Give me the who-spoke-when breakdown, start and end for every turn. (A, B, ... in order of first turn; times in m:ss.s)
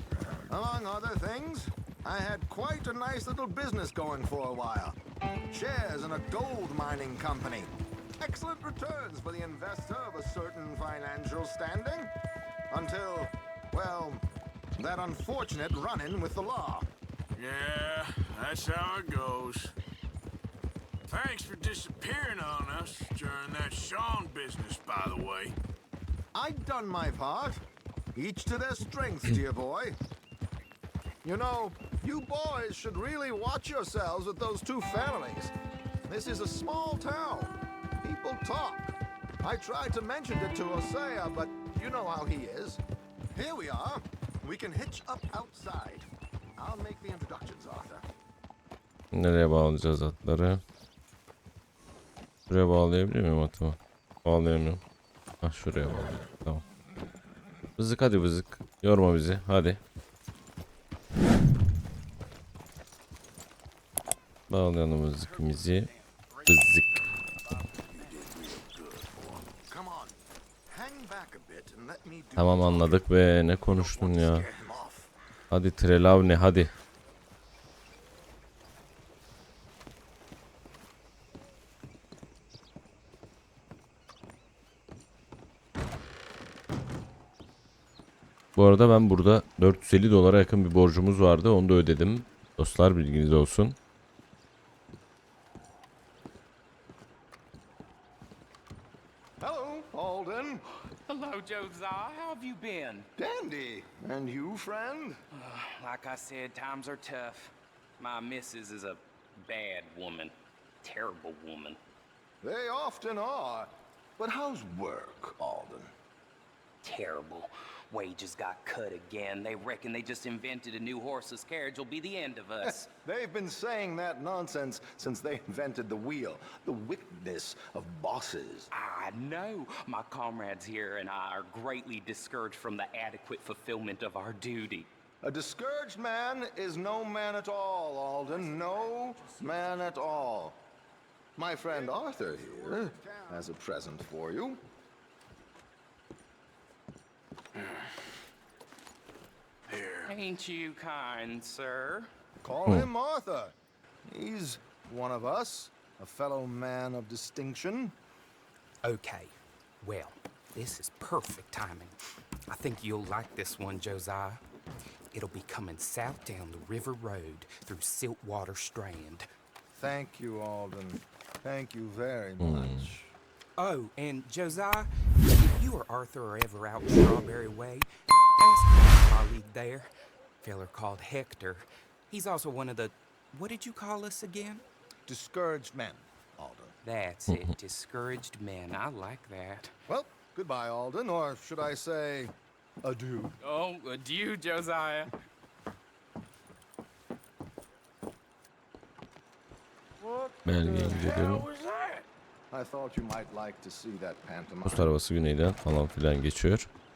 0:00.5-0:05.0 A
0:05.5-0:12.1 A
0:12.7-0:14.2 A
0:14.8-0:16.9 A
0:17.3-0:19.7 B
0:21.1-0:25.6 B
0:26.3-0:27.6 A
0:28.1-0:30.0 A
0:31.2-0:35.5 A
0:36.0-0:42.8 A
0:43.3-0:48.0 A
0:49.1-0:50.6 C
0:52.5-0:54.8 C
0:55.4-0:56.6 C
0:57.8-0:59.8 C
1:04.5-1:05.9 C
1:05.2-1:08.2 D
1:06.5-1:07.0 C
1:07.9-1:09.5 B
1:09.7-1:10.2 A
1:10.7-1:13.1 A
1:12.4-1:14.5 C
1:13.7-1:15.1 A
1:15.5-1:16.7 C
1:28.6-1:33.8 C
1:39.4-1:40.6 A
1:41.0-1:43.1 D
1:43.2-1:45.2 A
1:45.4-1:51.8 D
1:52.4-1:55.9 A
1:56.8-2:02.8 D
2:02.6-2:08.7 A
2:08.7-2:14.9 D
2:15.2-2:20.6 A
2:18.2-2:20.3 D
2:21.4-2:24.6 A
2:27.6-2:28.1 B
2:29.7-2:30.2 B
2:30.0-2:32.1 D
2:32.4-2:33.5 A
2:34.1-2:37.9 A
2:38.8-2:42.0 D
2:42.5-2:44.4 D
2:45.1-2:49.3 D
2:49.7-2:53.1 A
2:52.4-2:52.9 C
2:53.6-2:57.9 D
2:58.4-2:59.9 D
3:00.4-3:04.6 D
3:05.1-3:06.7 A
3:06.8-3:09.7 D
3:07.3-3:07.5 C
3:09.9-3:13.3 A
3:13.4-3:15.1 D
3:20.1-3:20.3 B
3:20.4-3:21.5 C
3:20.9-3:22.0 B
3:22.5-3:24.9 A
3:24.6-3:26.7 C